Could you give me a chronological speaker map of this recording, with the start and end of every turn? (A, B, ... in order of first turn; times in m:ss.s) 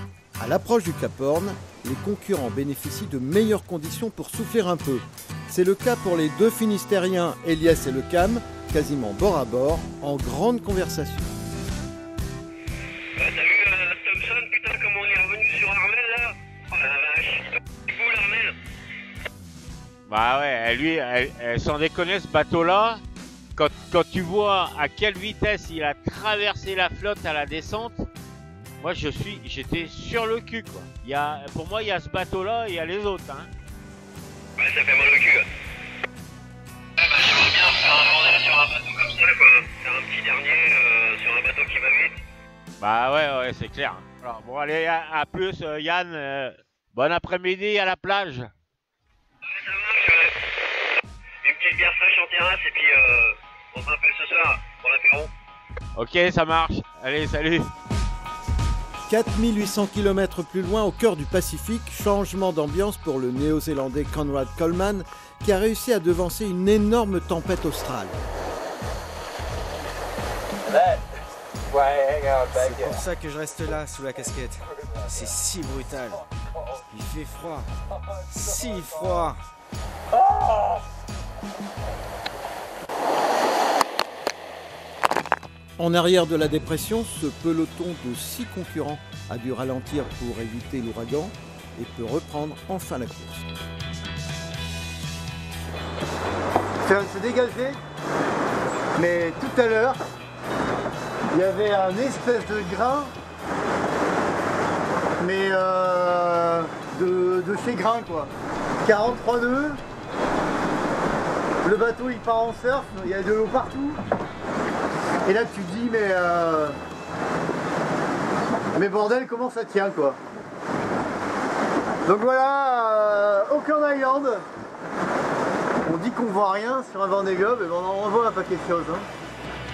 0:00.4-0:11.3 A
0:13.2-0:18.6 B
0:20.1-0:23.0 C
0:23.6-0:28.1 C
0:28.8-0:33.5 C
0:34.6-0:35.5 B
0:37.0-0:42.2 B
0:42.8-0:48.5 C
0:49.4-0:50.4 B
0:51.4-0:55.3 B
0:56.0-0:57.7 C
0:59.1-1:08.2 A
1:12.2-1:16.2 D
1:16.8-1:17.7 D
1:18.2-1:19.4 D
1:25.8-1:33.4 A
1:36.8-1:37.8 E
1:39.0-1:40.0 E
1:41.3-1:43.1 E
1:45.2-1:48.3 E
1:48.8-1:49.8 E
1:51.6-1:54.0 E
1:55.2-1:56.8 E
1:58.7-2:00.2 E
2:02.0-2:04.4 E
2:05.8-2:09.1 E